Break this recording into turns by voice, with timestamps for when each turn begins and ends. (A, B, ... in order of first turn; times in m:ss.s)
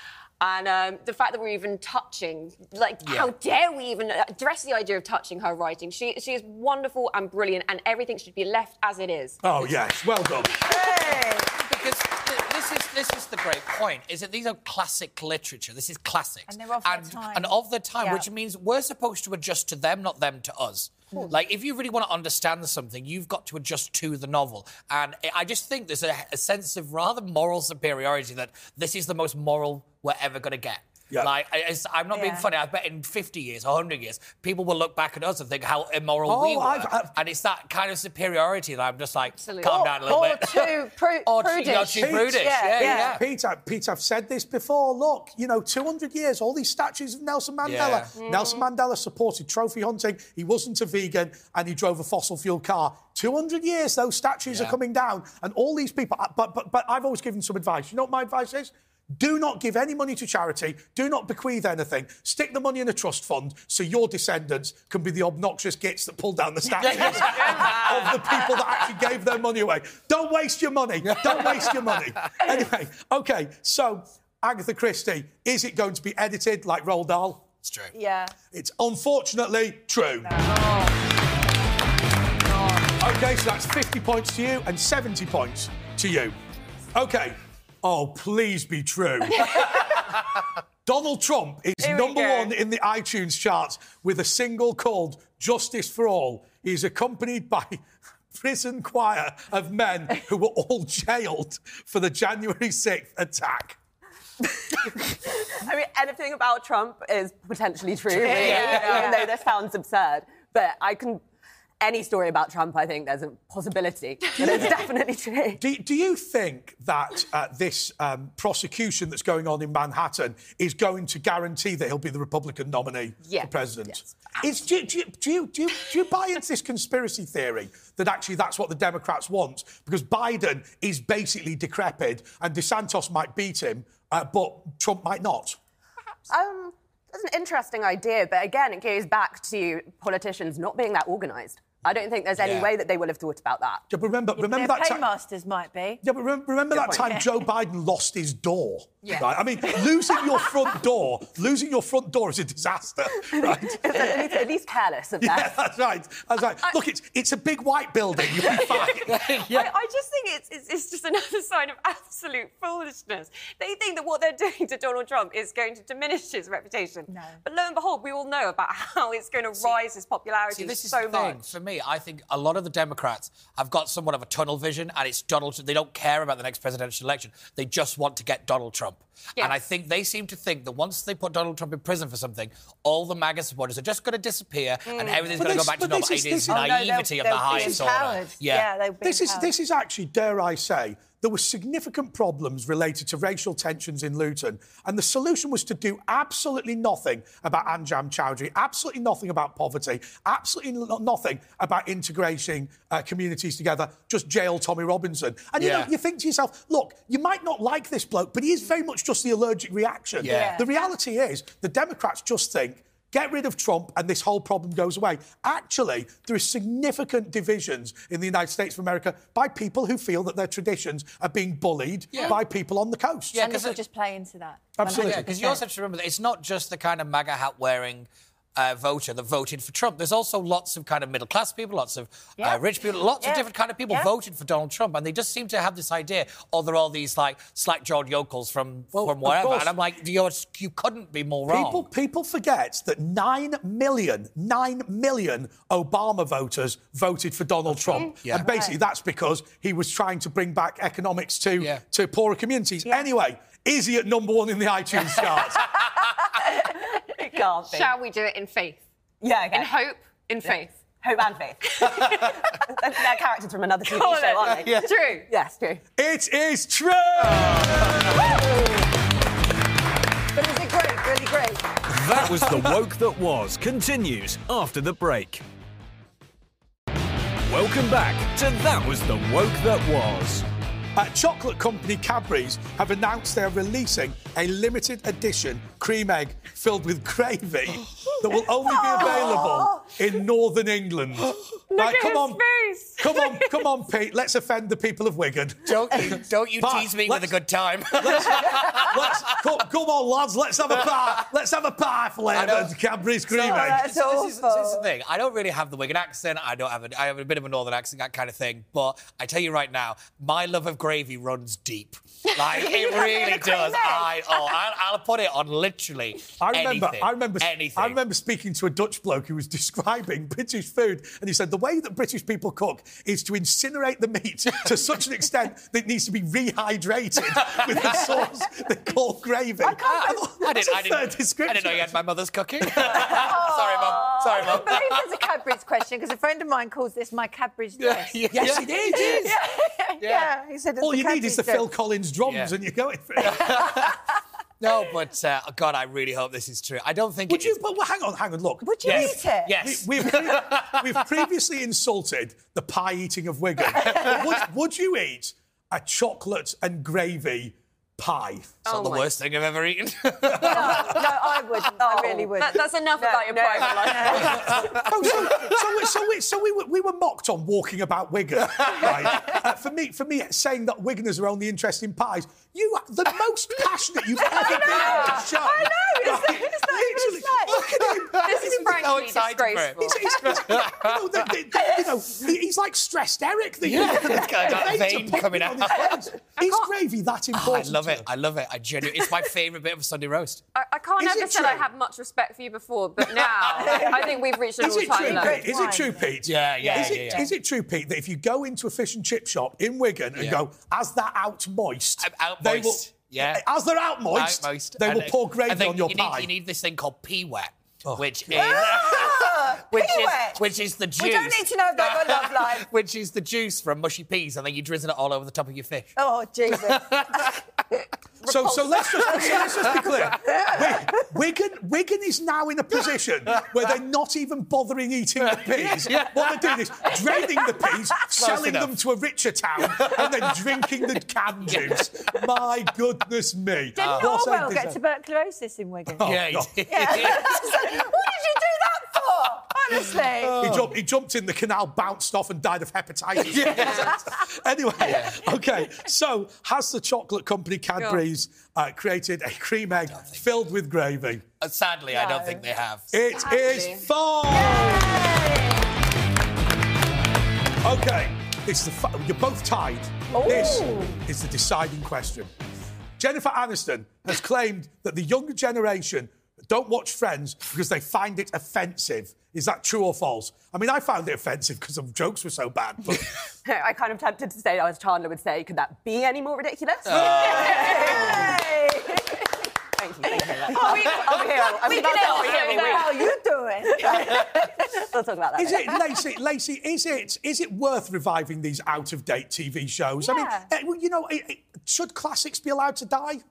0:00.4-0:09.4 A
0:03.0-0:03.3 B
0:09.4-0:10.5 C
0:10.6-0:11.6 D
0:11.5-0:43.2 B
0:16.5-0:18.2 D
0:32.1-0:32.4 D
0:36.3-0:37.1 C
0:39.3-0:39.7 A
0:39.6-0:43.1 D
0:41.7-1:17.5 C
0:47.6-0:48.1 B
0:48.1-0:48.6 A
0:54.4-0:54.8 B
1:06.8-1:08.2 B
1:07.5-1:08.0 A
1:11.0-1:12.1 B
1:17.6-1:17.9 B
1:17.9-1:18.3 D
1:18.5-1:20.3 C
1:20.2-1:20.6 D
1:20.4-1:21.1 A
1:22.4-1:23.0 A
1:23.0-1:26.4 C
1:26.9-1:30.2 C
1:30.8-1:37.8 C
1:31.8-1:32.5 A
1:38.3-1:43.8 C
1:45.4-1:51.2 E
1:48.1-1:49.0 B
1:48.3-1:49.3 A
1:48.6-1:49.1 D
1:51.8-1:55.6 E
1:54.4-1:54.7 B
1:55.6-2:15.6 C
2:03.2-2:04.1 A
2:16.3-2:23.8 E
2:22.4-2:22.7 B
2:23.9-2:25.1 C
2:24.3-2:26.0 D
2:26.0-2:34.5 C
2:26.7-2:27.2 E
2:29.0-2:30.5 A
2:33.2-2:35.5 E
2:35.2-2:39.2 C
2:38.3-2:51.5 A
2:39.0-2:39.7 B
2:47.1-2:47.4 D
2:50.5-3:08.7 B
3:04.9-3:05.4 A
3:05.4-3:06.9 C
3:06.5-3:09.5 D
3:07.5-3:07.8 C
3:09.0-3:43.4 C
3:25.6-3:25.9 B
3:30.2-3:30.6 B
3:30.2-3:30.9 D
3:42.1-3:42.4 B
3:43.3-3:43.8 B
3:43.4-3:45.6 D
3:44.8-3:45.3 C
3:44.9-4:01.8 B
3:52.4-3:52.6 D
3:53.2-3:54.1 D
3:58.9-3:59.7 C
4:01.5-4:15.8 C
4:07.7-4:08.5 B
4:08.3-4:08.7 D
4:17.0-4:17.9 E
4:17.7-4:18.8 A
4:19.2-4:19.7 E
4:19.5-4:20.8 A
4:20.4-4:25.8 E
4:21.6-4:22.4 A
4:23.8-4:25.3 A
4:26.0-4:28.5 C
4:27.3-4:27.9 B
4:28.0-4:28.7 D
4:30.3-4:31.8 D
4:31.9-4:35.4 F
4:32.2-4:32.6 C
4:37.4-4:40.4 F
4:40.9-4:52.4 C
4:48.6-4:49.9 D
4:51.7-4:53.7 A
4:53.0-4:57.3 C
4:55.6-4:59.5 B
4:57.9-5:03.8 C
5:02.3-5:02.8 B
5:03.3-5:18.0 B
5:03.3-5:04.9 D
5:12.5-5:14.1 D
5:16.4-5:32.0 C
5:27.3-5:28.0 B
5:29.6-5:30.3 D
5:29.8-5:35.1 B
5:32.8-5:33.3 C
5:32.8-5:41.7 D
5:37.8-5:39.3 B
5:38.3-5:39.3 C
5:40.0-5:40.3 B
5:40.8-5:43.9 C
5:42.2-5:42.5 B
5:43.2-5:44.0 B
5:44.6-5:47.6 B
5:47.3-5:58.6 C
5:48.6-5:49.5 D
5:48.8-5:51.2 B
5:53.7-5:54.4 B
5:58.6-6:01.0 B
5:58.8-5:59.1 A
6:00.2-6:00.9 C
6:00.4-6:02.7 D
6:01.6-6:04.8 E
6:02.4-6:04.7 A
6:03.9-6:05.9 B
6:03.9-6:04.4 D
6:04.4-6:18.9 C
6:08.5-6:09.3 B
6:14.1-6:17.7 D
6:14.7-6:15.2 A
6:17.7-6:21.3 B
6:18.2-6:20.1 A
6:19.8-6:28.0 C
6:23.6-6:26.1 B
6:26.4-6:26.7 A
6:27.3-6:30.4 B
6:30.5-6:35.6 A
6:31.0-6:31.6 C
6:33.1-6:34.0 B
6:33.6-6:34.1 D
6:34.6-6:46.3 C
6:35.0-6:37.3 D
6:36.2-6:37.3 B
6:40.1-6:40.4 B
6:42.0-6:43.4 B
6:44.1-6:55.9 B
6:47.8-6:48.6 C
6:48.3-6:50.4 D
6:51.0-6:52.7 D
6:56.0-6:57.4 D
6:56.5-6:57.5 B
6:58.2-6:58.8 A
6:58.2-7:14.8 C
6:58.9-7:00.1 B
7:00.2-7:01.0 D
7:05.2-7:08.7 B
7:09.7-7:10.4 B
7:11.4-7:12.1 B
7:13.8-7:16.0 D
7:13.8-7:14.1 B
7:15.9-7:17.3 C
7:16.0-7:17.8 B
7:16.7-7:20.5 D
7:20.2-7:31.2 C
7:20.4-7:20.7 B
7:23.2-7:24.0 B
7:23.8-7:24.1 D
7:24.8-7:25.2 B
7:27.8-7:28.0 A
7:29.9-7:30.2 B
7:31.4-7:32.9 B
7:31.9-7:32.4 D
7:32.9-7:35.2 C
7:33.2-7:33.8 A
7:34.3-7:35.6 D
7:37.6-7:42.3 C
7:40.1-7:41.0 D
7:43.0-7:53.1 C
7:53.4-7:59.0 E
7:56.8-7:58.2 B
7:57.0-7:59.3 D
7:59.7-8:03.1 E
8:00.1-8:04.9 D
8:00.5-8:03.1 A
8:03.8-8:05.8 E
8:05.3-8:13.2 C
8:10.0-8:10.5 D